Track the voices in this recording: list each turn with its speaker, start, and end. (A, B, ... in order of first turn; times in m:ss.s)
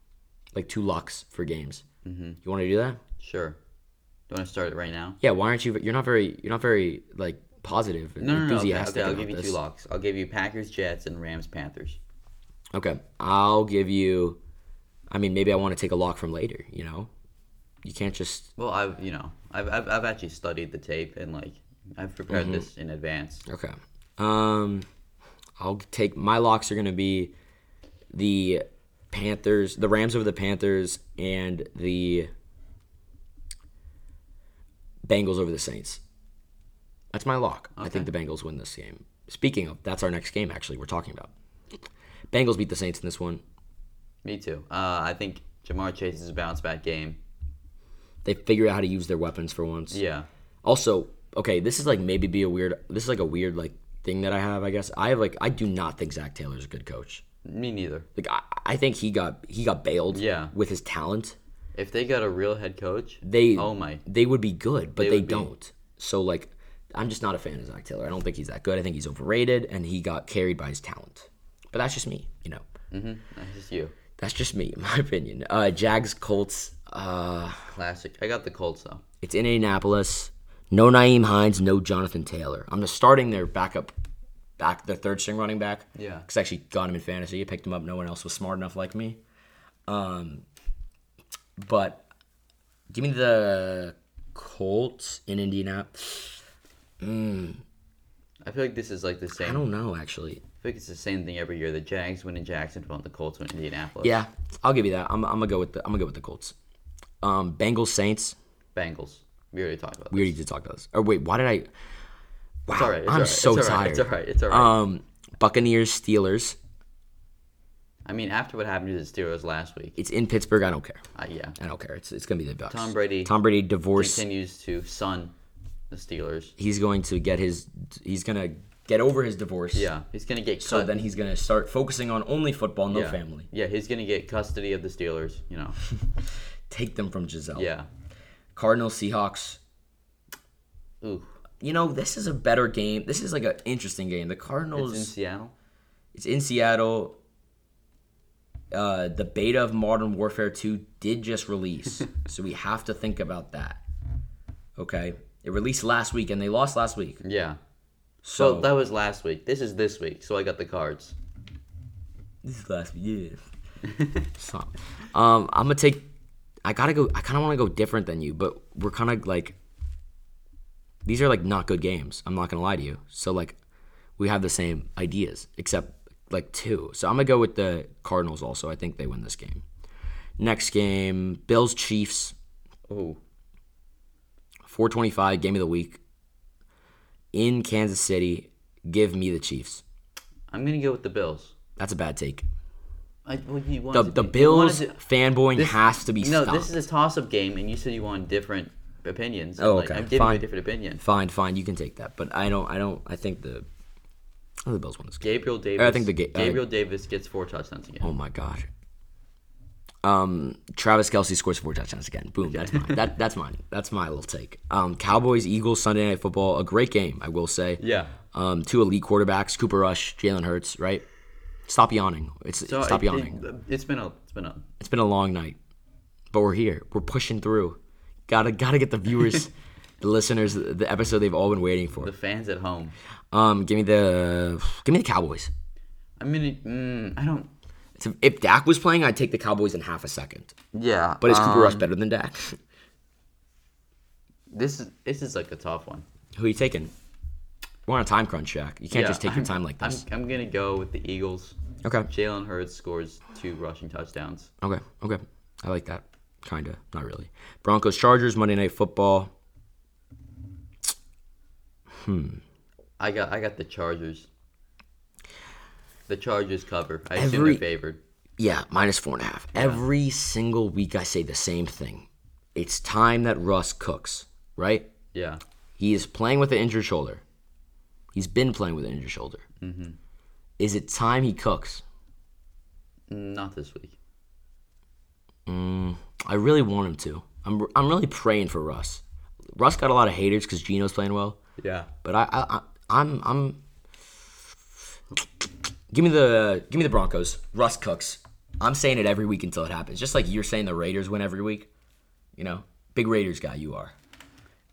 0:00.5-0:01.8 A
0:02.0-0:02.4 B
0:02.4-0:03.0 A
0:03.2-0:03.6 B
0:04.3-0:05.2 B
0:05.2-0:09.6 A
0:08.2-0:12.0 B
0:12.7-0:14.4 A
0:15.1-0:17.1 A
0:17.8-0:18.5 A
0:18.6-0:23.4 B
0:22.3-0:22.7 A
0:23.5-0:24.9 A
0:25.6-0:27.3 A
0:28.1-0:32.3 A
0:35.0-0:36.0 A
0:37.1-0:41.3 A
0:37.8-0:38.1 B
0:42.3-0:43.4 A
0:44.2-0:47.2 B
0:48.2-0:50.0 A
0:49.9-0:50.3 B
0:50.6-0:57.2 A
0:57.4-0:58.1 B
0:58.2-1:01.4 A
1:00.1-1:00.5 B
1:01.8-1:04.0 B
1:03.2-1:12.6 A
1:05.0-1:05.5 B
1:12.9-1:13.9 B
1:14.2-1:17.7 A
1:17.7-1:19.0 B
1:19.2-1:23.9 A
1:24.6-1:29.2 A
1:25.9-1:26.3 B
1:29.9-1:30.4 A
1:31.6-1:32.1 A
1:32.9-1:36.4 A
1:37.0-1:37.6 A
1:38.4-1:39.6 B
1:39.4-1:40.4 A
1:40.6-1:44.2 B
1:44.0-1:46.6 A
1:47.2-1:48.4 A
1:48.8-1:50.4 B
1:50.1-1:51.7 A
1:52.7-1:56.6 A
1:52.7-1:54.8 B
1:58.1-2:00.0 B
2:00.0-2:01.0 A
2:01.1-2:01.6 B
2:01.6-2:04.2 A
2:02.7-2:03.3 B
2:03.9-2:05.3 B
2:05.9-2:06.6 B
2:06.6-2:09.9 A
2:09.7-2:10.9 B
2:10.6-2:13.5 A
2:12.9-2:15.8 B
2:16.7-2:17.7 A
2:17.6-2:17.9 B
2:18.6-2:19.6 A
2:21.0-2:21.4 B
2:21.6-2:25.1 A
2:24.8-2:25.5 B
2:26.1-2:27.2 A
2:28.7-2:33.8 A
2:34.8-2:37.2 A
2:37.2-2:37.6 B
2:38.2-2:38.7 A
2:38.4-2:41.1 B
2:42.4-2:43.4 A
2:43.8-2:44.3 B
2:44.4-2:46.1 A
2:46.6-2:49.6 A
2:51.0-2:53.6 A
2:54.2-2:59.6 A
3:00.4-3:02.4 A
3:02.9-3:03.2 B
3:04.6-3:06.0 A
3:07.3-3:09.8 A
3:10.5-3:11.5 B
3:11.8-3:12.4 A
3:13.3-3:15.0 B
3:13.9-3:16.7 A
3:15.6-3:21.0 B
3:19.6-3:20.4 A
3:21.0-3:23.6 A
3:24.6-3:25.2 A
3:25.2-3:28.1 B
3:25.8-3:26.6 A
3:28.0-3:28.7 A
3:30.0-3:37.8 A
3:32.4-3:33.1 B
3:37.8-3:38.1 B
3:38.3-3:41.0 A
3:41.7-3:43.4 A
3:42.6-3:44.6 B
3:44.8-3:45.6 A
3:46.3-3:52.1 A
3:52.0-3:52.9 B
3:53.3-3:55.5 A
3:56.2-3:57.5 B
3:58.0-4:00.6 A
4:00.7-4:01.9 B
4:01.2-4:02.6 A
4:04.5-4:06.1 B
4:06.4-4:06.9 A
4:07.9-4:10.0 A
4:08.9-4:11.6 B
4:11.8-4:12.1 A
4:12.1-4:14.5 B
4:14.6-4:19.3 A
4:21.9-4:22.4 A
4:23.0-4:24.3 B
4:26.1-4:28.0 B
4:27.1-4:27.6 A
4:28.4-4:34.9 A
4:29.6-4:29.8 B
4:35.1-4:35.4 B
4:35.8-4:37.2 A
4:38.1-4:39.4 A
4:39.6-4:40.0 B
4:40.6-4:41.8 A
4:43.1-4:44.0 B
4:45.5-4:49.0 A
4:49.6-4:51.4 A
4:51.6-4:51.9 B
4:52.0-4:53.6 A
4:55.2-5:01.7 A
5:02.4-5:03.9 A